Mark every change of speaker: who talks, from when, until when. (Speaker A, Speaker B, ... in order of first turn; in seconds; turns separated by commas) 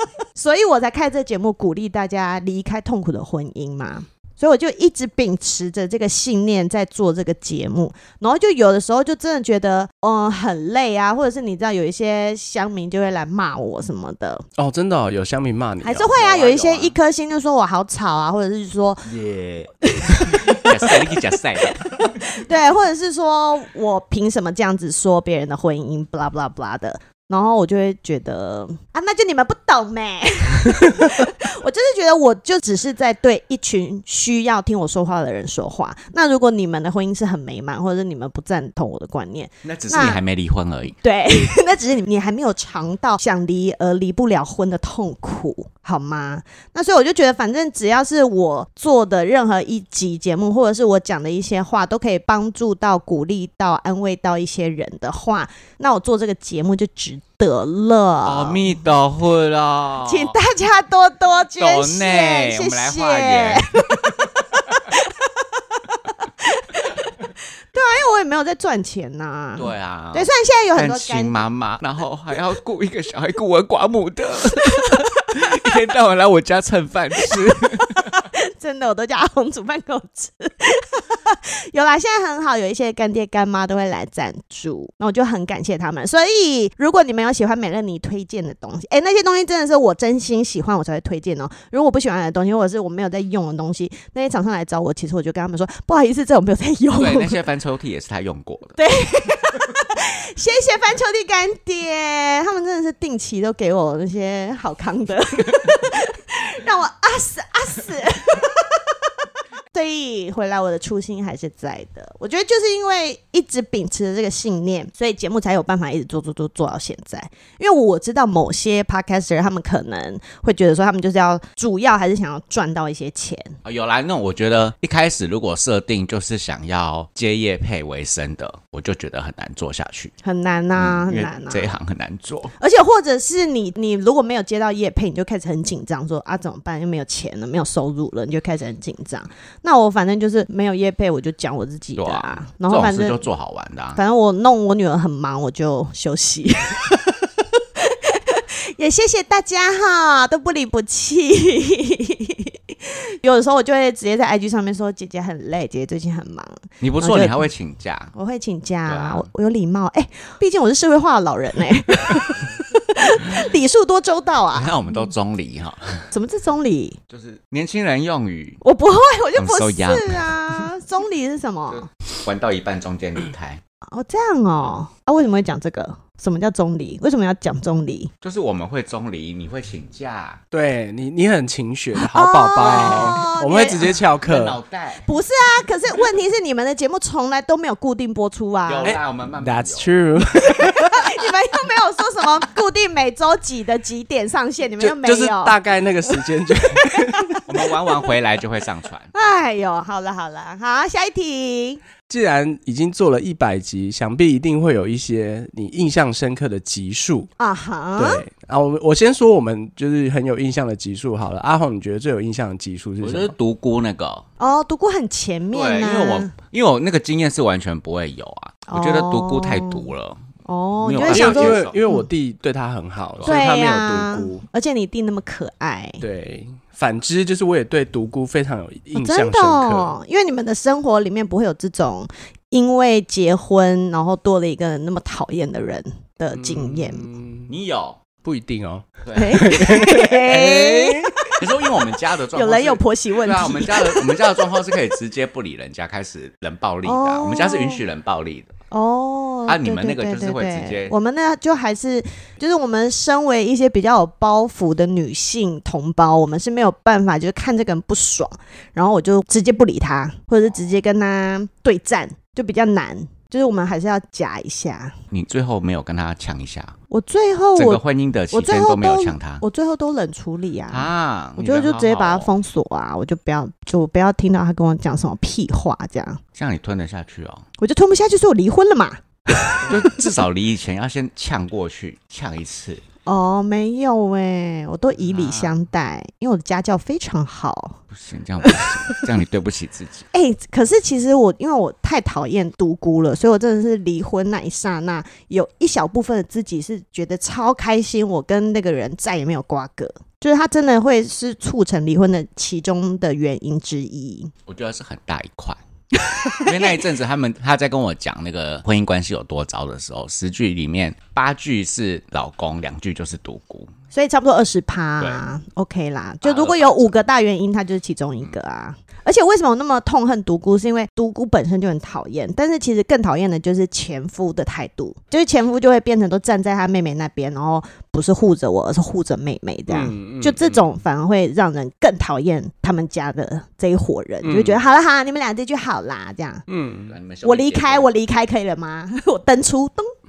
Speaker A: 0.3-14.4, Speaker B: 14.6-16.1, Speaker A: 15.8-19.1, Speaker C: 16.0-17.0, Speaker C: 19.1-22.1, Speaker A: 19.8-21.2, Speaker A: 21.8-40.2, Speaker C: 39.6-41.0, Speaker A: 41.0-58.8, Speaker C: 58.2-60.4, Speaker A: 60.0-64.1, Speaker C: 61.6-64.2, Speaker A: 64.9-67.1, Speaker A: 67.7-71.5, Speaker C: 69.6-78.2, Speaker A: 77.8-97.4, Speaker C: 97.0-98.8, Speaker A: 98.8-108.8, Speaker A: 109.7-123.6, Speaker C: 123.7-130.1, Speaker A: 130.2-131.7, Speaker C: 130.8-132.5, Speaker A: 132.6-143.2, Speaker C: 142.0-144.0, Speaker A: 144.0-157.5, Speaker C: 156.8-158.1, Speaker A: 158.1-164.9, Speaker C: 158.9-159.3, Speaker C: 164.5-166.1, Speaker A: 166.1-167.0, Speaker C: 167.1-168.6, Speaker A: 168.6-171.8, Speaker C: 169.4-170.6, Speaker C: 171.7-173.6, Speaker A: 173.9-178.1, Speaker C: 178.2-180.4, Speaker B: 180.5-184.6, Speaker A: 181.9-184.0, Speaker C: 182.7-183.0, Speaker C: 184.2-185.0, Speaker A: 185.1-189.0, Speaker C: 188.7-189.9, Speaker B: 188.9-191.1, Speaker A: 190.5-196.2, Speaker B: 194.8-197.4, Speaker A: 196.8-197.4, Speaker C: 197.5-199.1, Speaker A: 199.1-201.8, Speaker B: 202.1-207.3, Speaker A: 207.4-208.2, Speaker B: 208.0-213.3, Speaker C: 213.0-214.2, Speaker A: 214.4-216.3, Speaker C: 215.5-220.2, Speaker A: 218.7-219.9, Speaker A: 220.4-222.1, Speaker C: 220.8-221.8, Speaker B: 221.1-224.4, Speaker A: 223.2-226.0, Speaker B: 226.0-230.0, Speaker A: 229.0-237.1, Speaker B: 236.3-237.5, Speaker C: 237.5-238.0, Speaker B: 238.2-241.2, Speaker C: 239.1-239.4, Speaker A: 239.2-241.4, Speaker C: 241.4-248.5, Speaker A: 242.3-244.3, Speaker A: 246.8-247.8, Speaker A: 248.7-265.0, Speaker C: 249.5-250.9, Speaker C: 265.1-266.8, Speaker A: 266.9-276.2, Speaker C: 267.6-269.4, Speaker C: 270.7-272.3, Speaker C: 276.4-277.4, Speaker A: 277.6-280.0, Speaker C: 279.6-282.8, Speaker A: 283.1-287.8, Speaker C: 285.0-285.5, Speaker C: 287.9-290.1, Speaker A: 288.4-289.0, Speaker A: 290.1-304.3, Speaker C: 304.5-305.6, Speaker C: 306.1-313.7, Speaker A: 306.2-306.8, Speaker A: 313.9-336.4, Speaker C: 316.2-317.0, Speaker B: 329.7-330.6, Speaker B: 334.2-334.6, Speaker B: 336.5-336.9, Speaker C: 336.9-337.9, Speaker A: 337.2-339.9